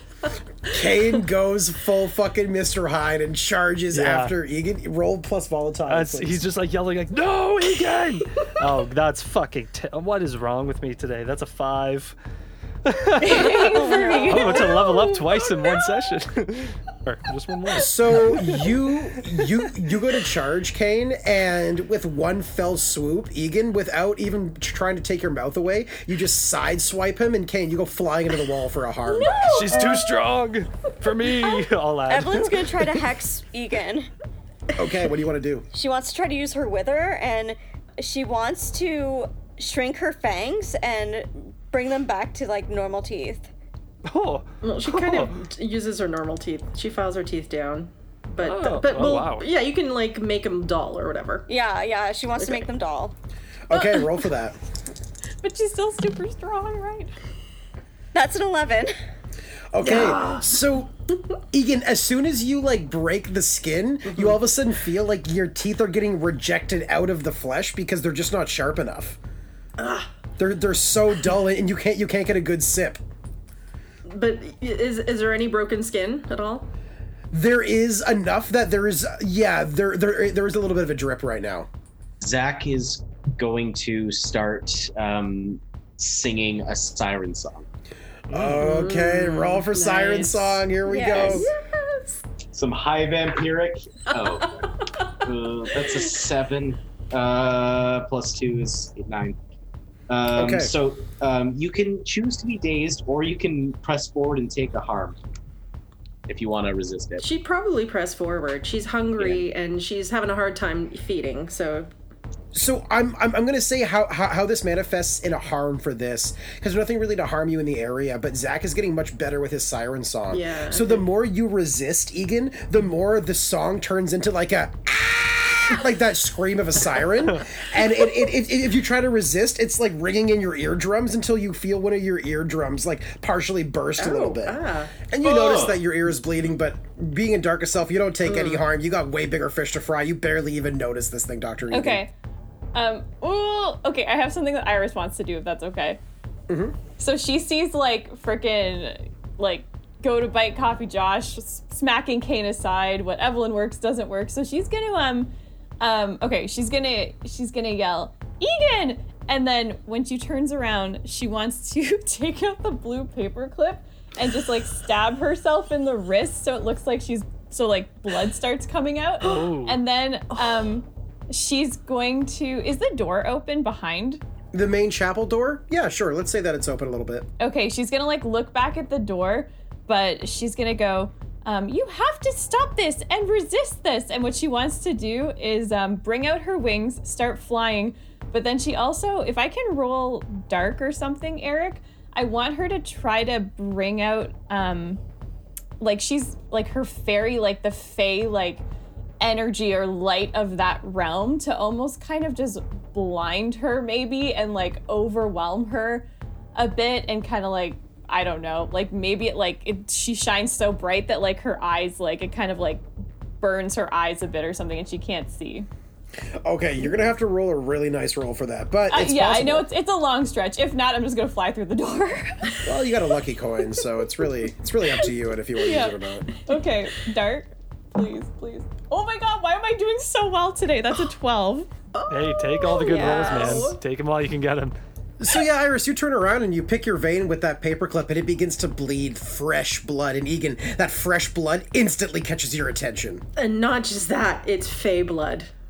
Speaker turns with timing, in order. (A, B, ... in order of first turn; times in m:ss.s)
0:00.6-0:06.4 A
0:03.9-0:04.3 B
0:05.9-0:12.1 B
0:12.8-0:18.6 B
0:13.2-0:15.2 C
0:13.7-0:14.7 D
0:17.8-0:29.6 A
0:29.1-0:29.8 C
0:29.5-0:33.0 B
0:29.7-0:30.1 D
0:32.1-0:34.1 D
0:34.8-0:35.7 A
0:35.7-0:43.5 D
0:44.1-0:45.4 B
0:44.6-0:51.5 E
0:48.4-0:49.4 B
0:51.5-0:53.1 D
0:52.4-0:52.6 E
0:53.7-0:54.6 A
0:55.4-0:57.1 C
0:58.1-0:58.9 D
0:59.7-1:00.9 A
0:59.8-1:00.6 E
1:01.5-1:09.2 A
1:04.1-1:04.3 E
1:09.8-1:10.1 E
1:10.4-1:13.0 A
1:14.1-1:16.7 E
1:17.3-1:21.7 A
1:22.2-1:27.6 F
1:28.3-1:31.5 A
1:28.6-1:30.6 E
1:30.8-1:31.5 D
1:31.1-1:32.2 E
1:32.5-1:39.4 F
1:34.2-1:35.1 E
1:35.8-1:36.2 E
1:40.1-1:45.2 F
1:40.3-1:40.7 A
1:46.3-1:47.2 F
1:47.2-1:51.9 E
1:52.5-2:22.0 A
2:00.3-2:01.0 E
2:14.0-2:15.0 E
2:15.2-2:15.8 F
2:18.3-2:18.6 E
2:21.7-2:22.1 C
2:22.7-2:26.0 C
2:26.5-2:26.8 A
2:27.0-2:54.2 C
2:49.2-2:49.8 B
2:54.5-2:57.3 A
2:57.4-3:15.0 C
3:15.8-3:18.6 C
3:19.2-3:32.8 C
3:33.4-3:35.7 C
3:36.3-3:39.7 A
3:38.9-3:42.5 C
3:42.6-3:46.3 A
3:45.6-3:45.9 C
3:46.4-3:51.7 C
3:51.9-3:53.8 E
3:52.1-3:54.7 B
3:52.7-3:53.7 D
3:55.2-4:03.2 A
4:03.4-4:05.5 E